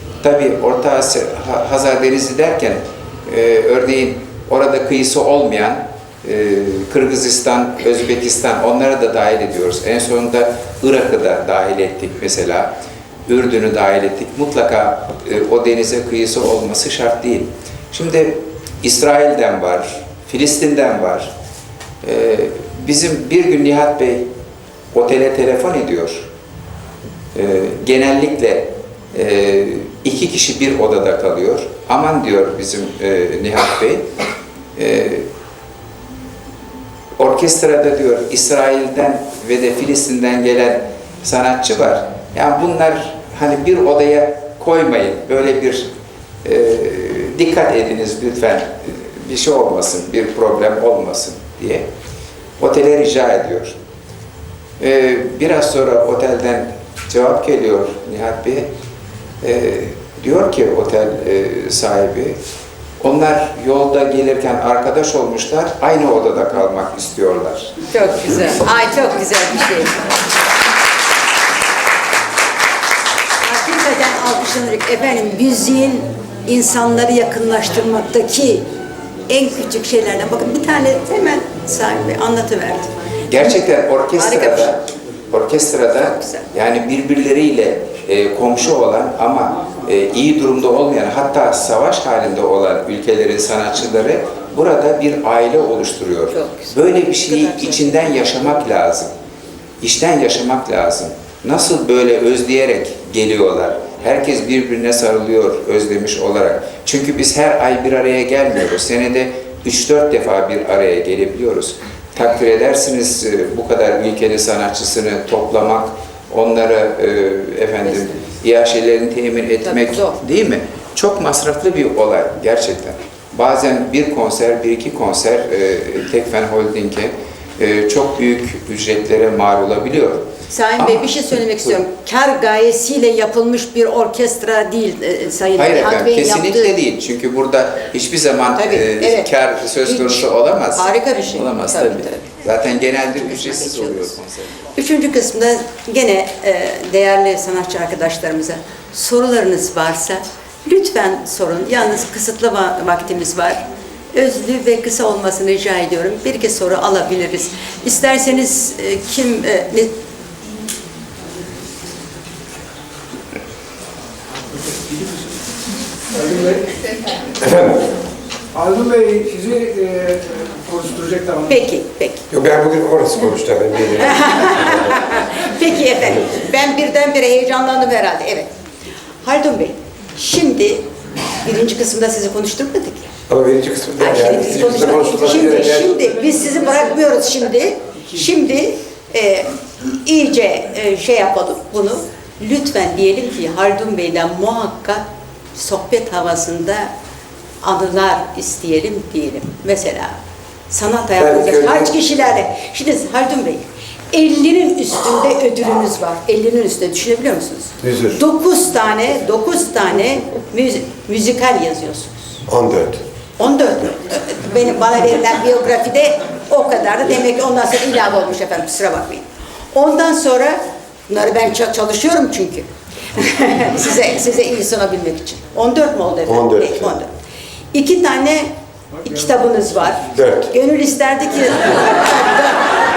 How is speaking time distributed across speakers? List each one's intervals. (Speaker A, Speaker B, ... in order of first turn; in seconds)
Speaker A: 0.2-12.7, 13.3-21.3, 22.0-24.3, 24.9-26.3, 27.3-34.1, 34.8-35.3, 37.2-45.9, 46.4-51.9, 52.6-53.8, 54.8-58.7, 59.4-62.4, 63.0-67.8, 83.3-99.1, 99.8-131.8, 135.6-144.6
Speaker B: 67.9-70.0, 73.4-78.7, 79.3-82.9, 84.2-84.8, 86.0-86.5, 96.3-98.3, 117.8-118.2, 119.6-120.2, 130.5-136.7, 138.6-139.3, 139.8-142.3, 143.2-144.1, 144.8-159.9, 171.5-172.2, 174.0-178.5, 179.2-180.9, 181.4-183.1, 184.0-189.5, 190.0-196.9, 197.6-200.2, 200.7-212.4, 213.4-227.1, 227.7-232.7
Speaker C: 166.1-166.8, 168.5-171.6
Speaker D: 167.4-167.9, 172.3-175.0, 183.3-186.1, 201.2-202.0, 207.8-208.2, 212.5-213.0, 226.3-227.0, 230.2-230.5